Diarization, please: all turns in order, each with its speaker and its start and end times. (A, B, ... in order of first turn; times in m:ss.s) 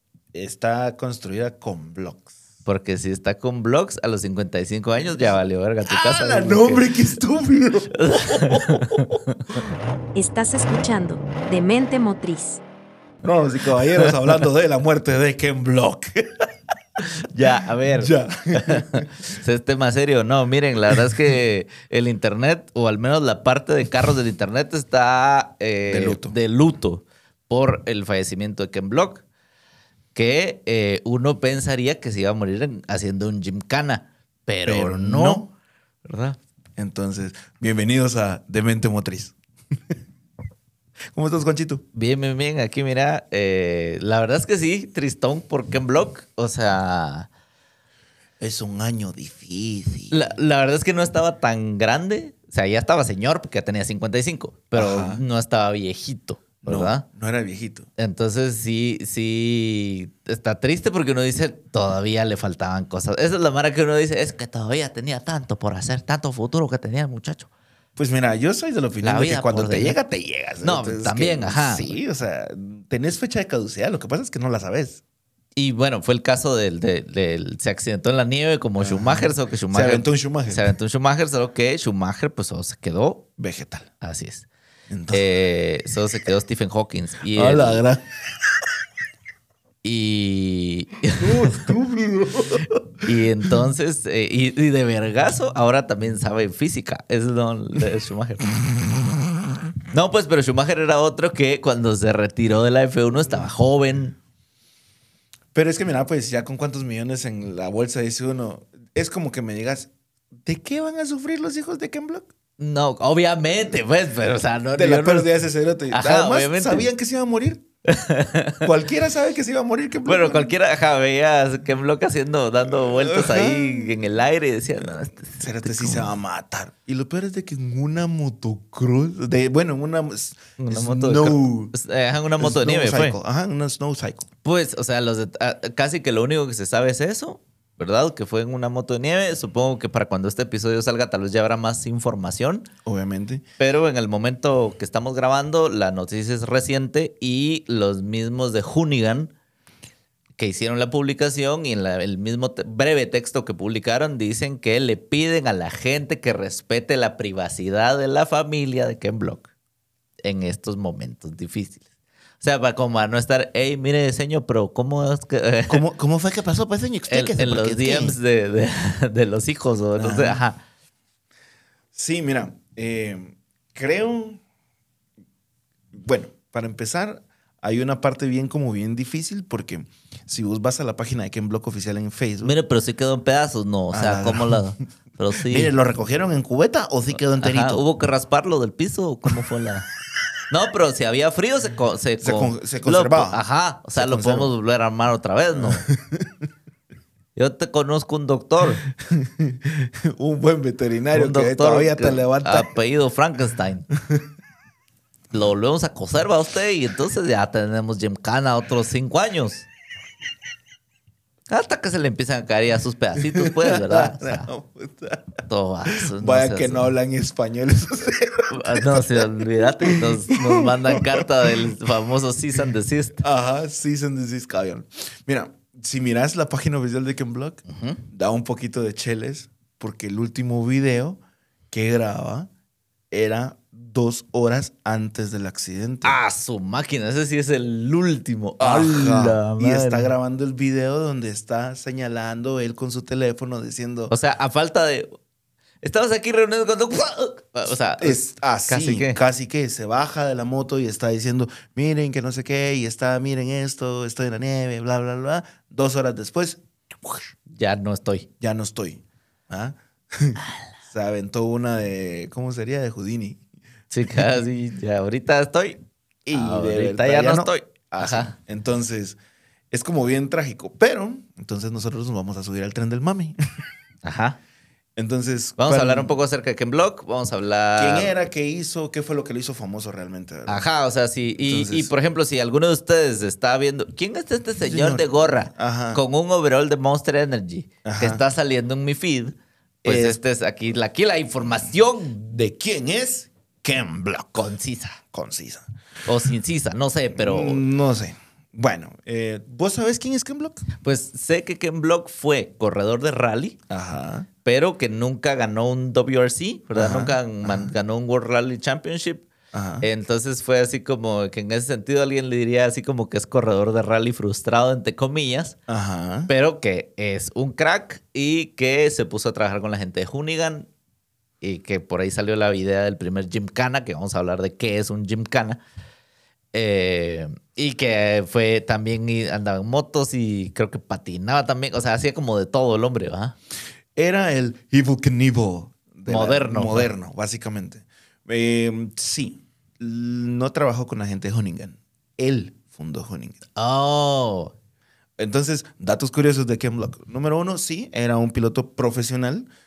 0:00.3-0:02.3 A
0:02.7-0:06.9 B
0:05.9-0:09.1 A
0:08.0-0:09.6 B
0:10.2-0:12.6 C
0:13.2-0:16.5 A
0:17.3-0:29.2 B
0:18.0-0:19.1 A
0:25.9-0:26.4 A
0:30.1-0:35.5 B
0:34.7-0:35.5 A
0:36.0-0:36.4 B
0:36.8-0:39.4 A
0:41.1-0:41.8 A
0:42.0-0:47.3 B
0:48.4-0:50.4 A
0:50.1-0:57.0 B
0:54.8-0:55.2 A
0:56.6-0:57.9 A
0:58.0-1:07.5 B
1:08.0-1:15.0 A
1:09.0-1:10.0 B
1:10.6-1:12.0 B
1:15.6-1:23.3 B
1:18.8-1:20.7 A
1:23.4-1:23.9 A
1:24.0-1:24.5 B
1:24.9-1:25.2 A
1:25.1-1:27.8 B
1:27.3-1:28.0 A
1:29.8-1:31.7 B
1:31.2-1:32.8 A
1:33.0-1:38.5 B
1:39.9-1:44.2 B
1:45.5-1:49.9 A
1:50.4-1:52.3 A
1:52.6-1:55.3 B
1:54.8-1:57.6 A
1:55.9-1:56.9 B
1:57.9-1:58.7 B
1:58.6-2:00.5 A
2:00.0-2:06.1 B
2:02.8-2:04.0 A
2:05.2-2:11.8 A
2:10.6-2:13.2 B
2:12.4-2:14.3 A
2:14.4-2:22.7 B
2:22.8-2:23.4 A
2:23.6-2:29.3 B
2:30.4-2:39.5 B
2:40.2-2:41.8 B
2:42.4-2:45.8 B
2:45.7-2:48.2 A
2:47.1-2:50.6 B
2:50.0-2:50.4 A
2:51.9-2:54.4 A
2:55.9-3:02.6 A
3:02.4-3:05.7 B
3:03.9-3:04.7 A
3:05.5-3:07.8 A
3:07.4-3:09.9 B
3:10.5-3:15.8 B
3:12.2-3:13.4 A
3:14.0-3:14.5 A
3:15.6-3:16.3 A
3:17.4-3:18.8 B
3:19.0-3:22.7 A
3:21.1-3:23.9 B
3:25.3-3:29.7 B
3:31.5-3:34.5 B
3:33.2-3:41.7 A
3:35.5-3:36.9 B
3:38.5-3:43.2 B
3:43.2-3:51.2 A
3:47.7-3:48.0 B
3:51.7-3:52.5 A
3:53.1-3:56.2 A
3:56.0-4:00.1 B
3:58.6-4:04.1 A
4:04.1-4:05.2 B
4:05.8-4:09.2 B
4:08.0-4:17.3 A
4:17.5-4:18.3 B
4:18.4-4:23.4 A
4:23.9-4:25.8 B
4:26.3-4:29.2 A
4:26.3-4:28.3 B
4:29.7-4:33.4 A
4:34.0-4:34.4 B
4:35.0-4:36.2 A
4:35.6-4:38.1 B
4:37.8-4:40.7 A
4:40.5-4:52.3 B
4:41.4-4:41.9 A
4:44.6-4:46.0 A
4:47.8-4:48.2 A
4:49.8-4:50.2 A
4:52.3-4:54.5 A
4:54.4-4:55.0 B
4:55.1-4:55.6 A
4:56.1-4:57.6 B
4:57.1-5:00.6 A
5:00.8-5:03.6 B
5:03.7-5:04.3 A
5:04.4-5:09.3 B
5:06.8-5:07.7 A
5:09.5-5:09.9 A
5:09.8-5:15.6 B
5:15.7-5:16.3 A
5:16.3-5:20.7 B
5:21.4-5:25.6 B
5:26.5-5:33.4 B
5:34.0-5:43.4 A
5:36.1-5:36.9 B
5:43.6-5:44.5 B
5:45.2-5:49.5 A